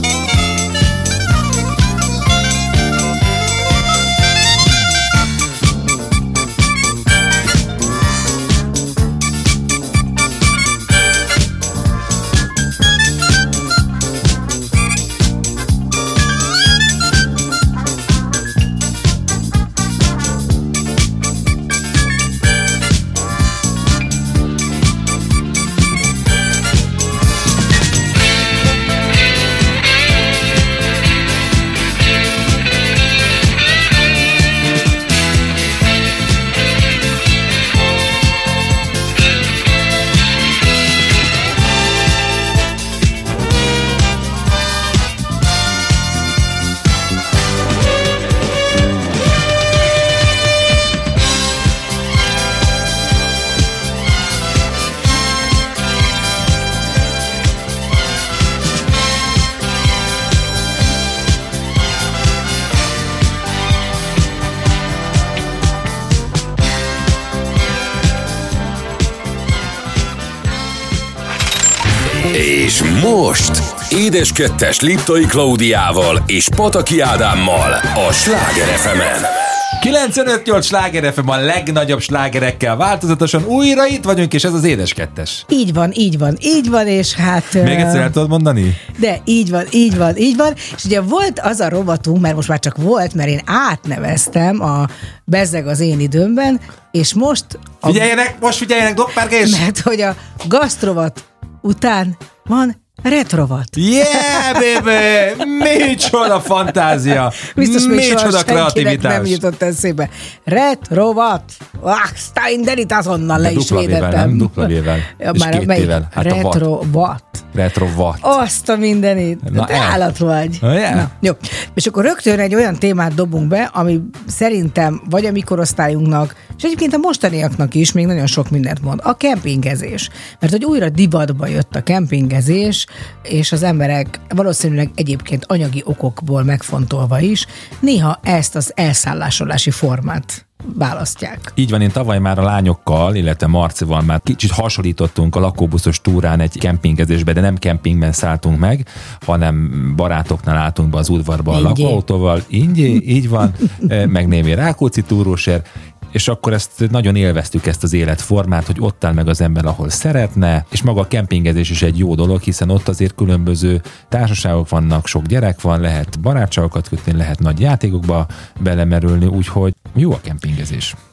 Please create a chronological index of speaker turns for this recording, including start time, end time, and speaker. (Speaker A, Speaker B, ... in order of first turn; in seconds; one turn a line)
Speaker A: 72.3-79.4
Speaker B: 79.8-85.5
Speaker C: 85.5-88.1
Speaker B: 87.6-88.8
Speaker C: 88.9-98.1
Speaker B: 97.8-99.6
Speaker C: 99.4-104.8
Speaker B: 103.8-109.4
Speaker C: 107.4-117.5
Speaker B: 113.3-116.6
Speaker B: 117.5-118.4
Speaker C: 118.2-141.5
Speaker B: 119.4-120.0
Speaker B: 120.6-121.1
Speaker B: 141.6-170.9
Speaker C: 151.5-152.0